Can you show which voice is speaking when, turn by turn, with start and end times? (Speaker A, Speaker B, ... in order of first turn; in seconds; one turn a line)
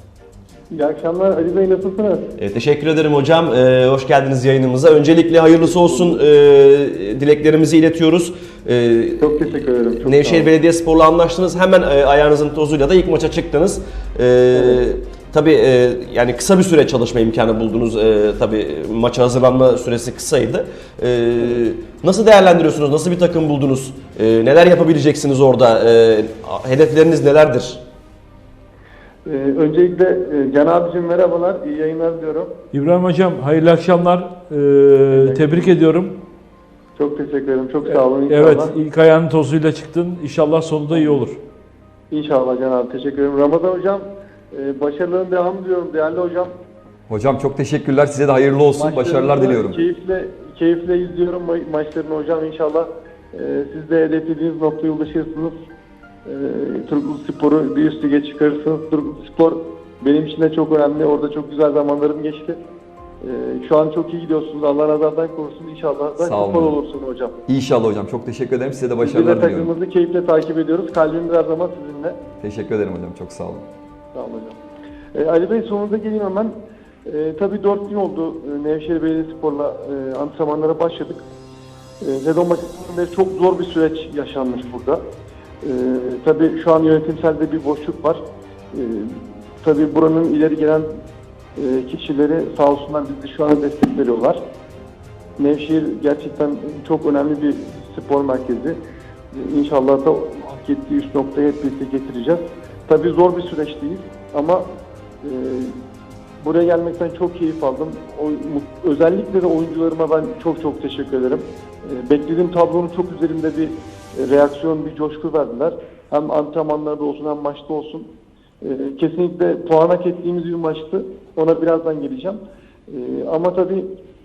Speaker A: 0.7-2.3
Speaker B: 2.4-27.8
Speaker A: 5.6-6.2
Speaker A: 9.2-10.5
Speaker A: 14.5-14.8
Speaker A: 29.3-32.5
Speaker C: 32.7-36.1
Speaker A: 35.1-35.8
Speaker A: 37.0-38.7
Speaker C: 37.9-41.4
Speaker A: 40.9-41.2
Speaker A: 42.1-46.5
Speaker D: 47.1-49.8
Speaker A: 48.8-55.5
Speaker A: 56.3-62.6
Speaker A: 63.2-67.3
Speaker D: 66.2-66.8
Speaker D: 67.5-69.7
Speaker A: 69.0-72.2
Speaker D: 72.4-73.7
Speaker A: 74.1-74.6
Speaker A: 75.1-76.5
Speaker A: 77.1-81.2
Speaker A: 82.0-85.0
Speaker A: 85.6-88.2
Speaker A: 88.7-90.9
Speaker A: 91.6-94.4
Speaker A: 95.4-98.8
Speaker A: 99.3-104.6
Speaker A: 105.2-105.8
Speaker A: 106.4-118.1
Speaker A: 118.6-123.9